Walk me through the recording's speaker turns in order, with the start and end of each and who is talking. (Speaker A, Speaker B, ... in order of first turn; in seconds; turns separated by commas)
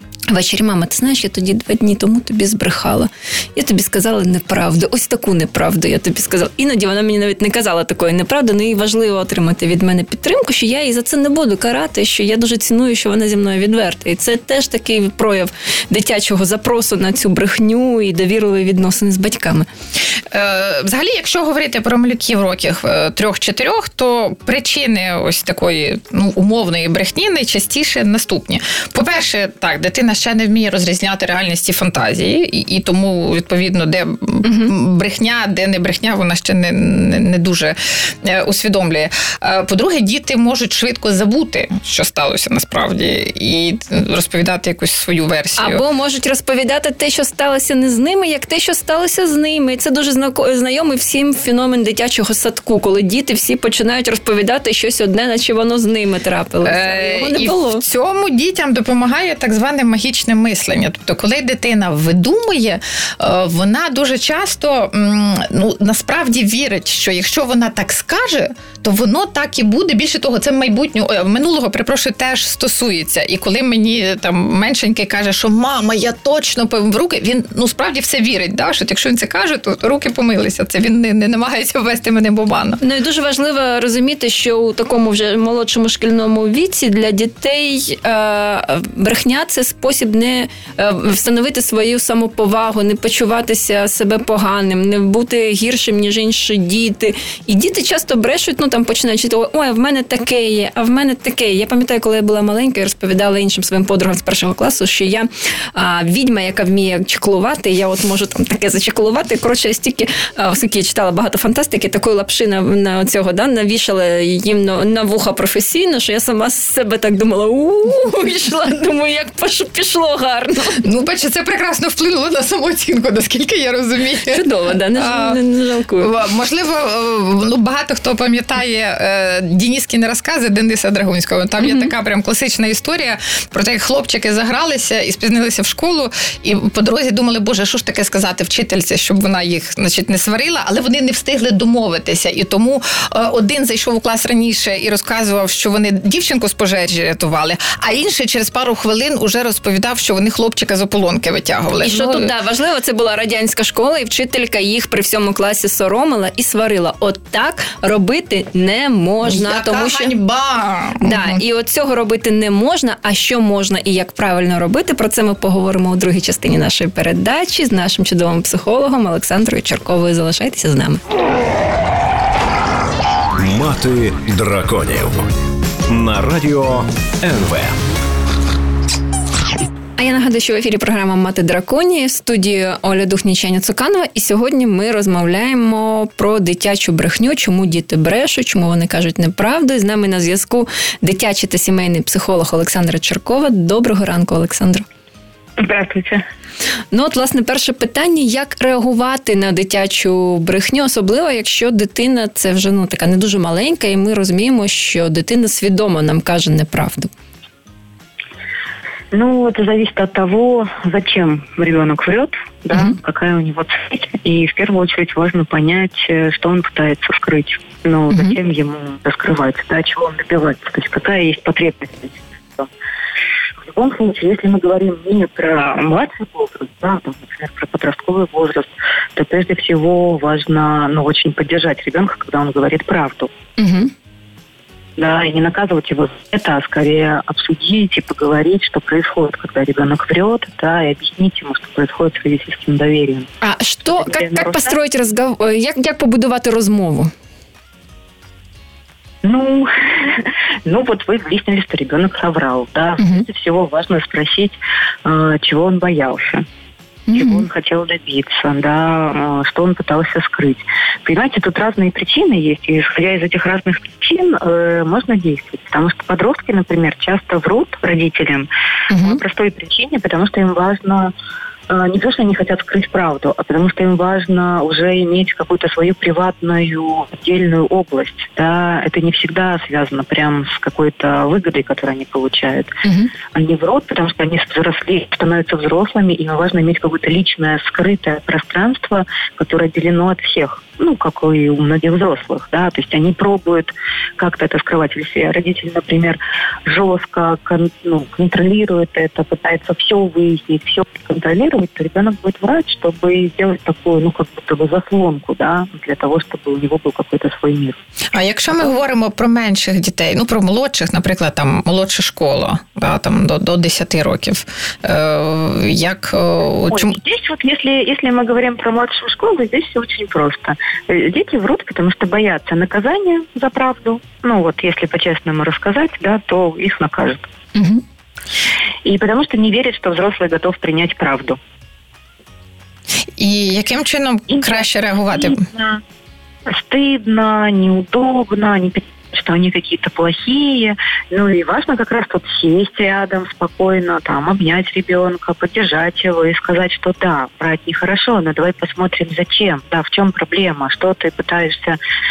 Speaker A: 0.3-19.7, Speaker B: 20.3-45.8, Speaker A: 34.4-34.7, Speaker A: 45.6-57.8, Speaker B: 56.6-82.8, Speaker A: 82.8-120.8, Speaker B: 120.8-125.4, Speaker A: 124.3-126.1, Speaker B: 126.0-152.3, Speaker A: 131.6-131.9, Speaker A: 151.8-160.1, Speaker B: 159.2-161.4, Speaker A: 161.0-171.0, Speaker C: 173.3-175.2, Speaker C: 175.9-177.8, Speaker A: 180.0-194.8, Speaker D: 195.6-196.2, Speaker A: 196.9-207.1, Speaker D: 209.1-222.7, Speaker A: 218.1-218.3, Speaker D: 223.6-233.3, Speaker A: 233.6-233.9, Speaker D: 235.0-243.3, Speaker A: 243.4-247.1, Speaker D: 243.9-244.7, Speaker D: 249.2-256.4, Speaker A: 257.1-257.4, Speaker D: 257.1-268.5, Speaker B: 268.9-269.2, Speaker D: 269.0-271.1, Speaker D: 271.7-282.7, Speaker D: 283.3-307.8, Speaker B: 308.1-317.0, Speaker D: 316.7-327.2, Speaker D: 328.8-331.4, Speaker B: 333.2-335.4, Speaker D: 334.3-335.8, Speaker D: 336.5-351.8